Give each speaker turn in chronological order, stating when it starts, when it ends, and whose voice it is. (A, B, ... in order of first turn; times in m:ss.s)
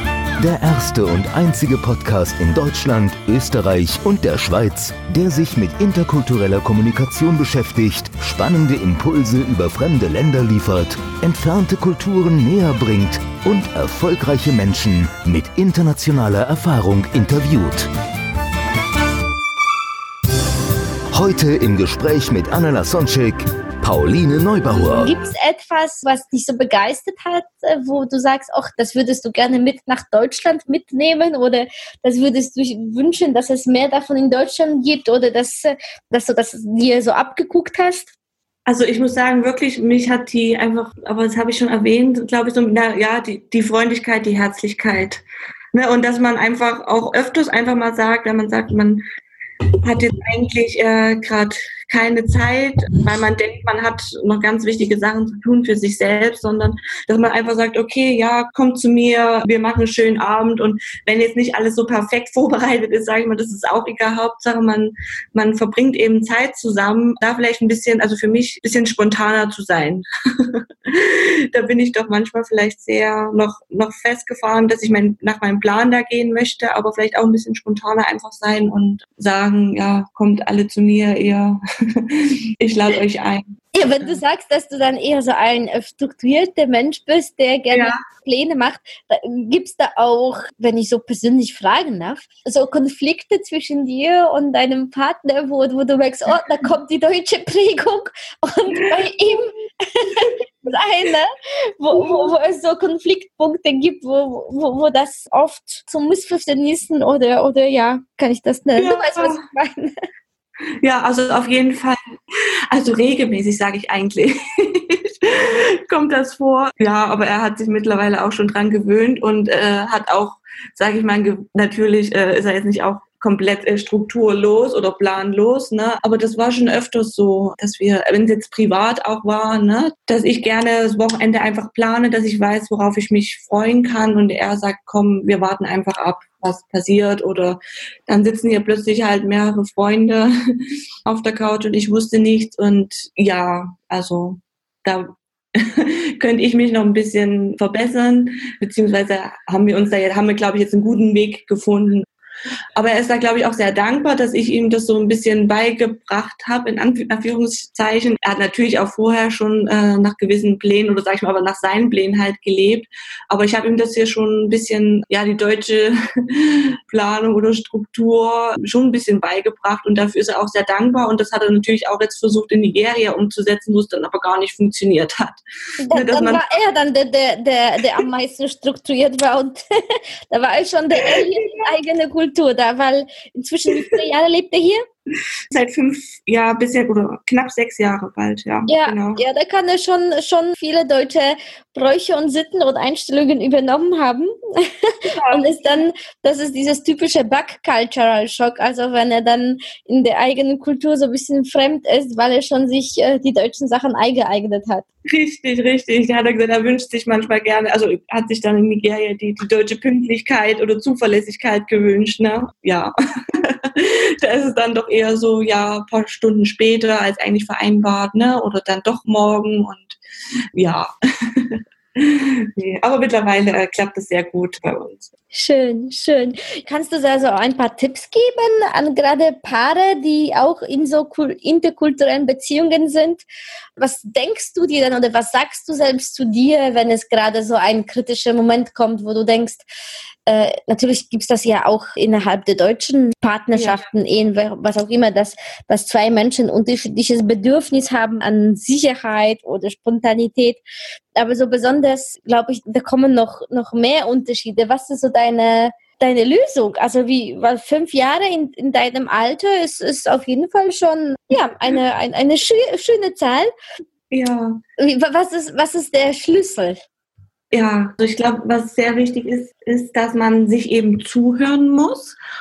0:00.4-0:17.9 A
0:21.1-0:25.1 A
0:24.8-0:38.1 B
0:38.7-0:49.0 C
0:49.8-1:24.2 C
1:23.8-1:49.9 B
1:27.7-1:28.0 C
1:42.0-1:42.2 C
1:48.8-1:49.4 C
1:50.8-1:52.0 C
1:52.7-2:20.4 C
2:21.1-2:32.1 C
2:32.8-2:56.4 C
2:55.8-3:04.8 B
3:01.0-3:01.7 C
3:05.5-3:09.2 C
3:08.7-3:24.8 B
3:15.1-3:15.5 C
3:25.1-3:40.0 C
3:40.5-3:45.1 C
3:45.3-3:53.2 B
3:53.8-3:59.6 B
4:00.2-4:10.6 B
4:03.5-4:03.8 C
4:11.2-4:23.5 B
4:24.1-4:24.6 C
4:24.8-4:26.8 B
4:27.5-4:32.2 C